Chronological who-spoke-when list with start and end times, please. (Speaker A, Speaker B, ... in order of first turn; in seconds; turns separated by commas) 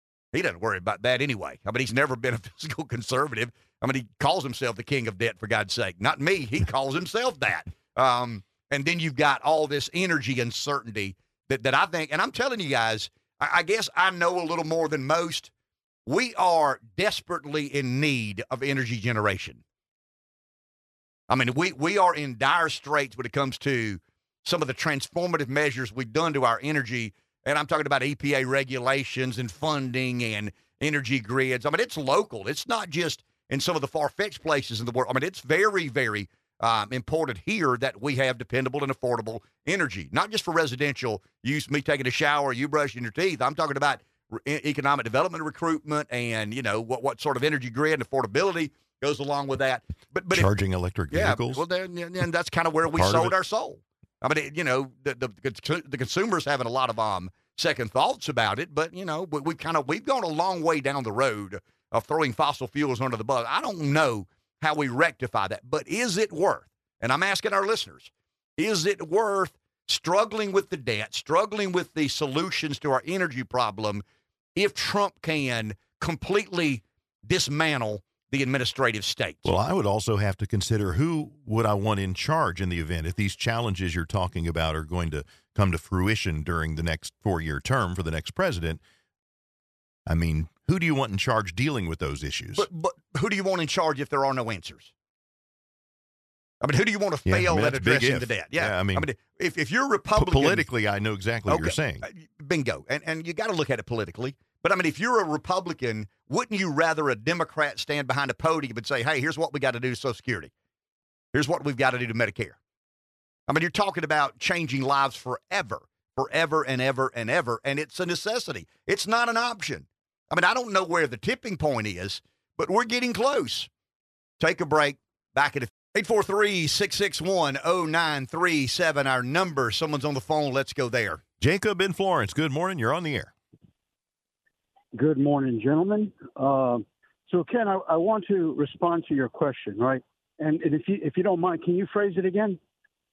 Speaker A: 0.3-15.5, Speaker A: 16.1-19.6, Speaker A: 21.3-50.5, Speaker B: 50.3-51.6, Speaker A: 51.1-74.0, Speaker B: 52.9-53.4, Speaker A: 74.6-79.5, Speaker B: 79.4-88.8, Speaker B: 90.1-92.7, Speaker A: 92.5-94.9, Speaker A: 96.6-100.7, Speaker B: 97.3-99.1, Speaker B: 100.2-102.1, Speaker A: 101.5-110.5, Speaker A: 111.3-112.6, Speaker A: 113.5-123.7, Speaker A: 124.4-131.2, Speaker B: 131.4-133.3, Speaker C: 134.9-142.6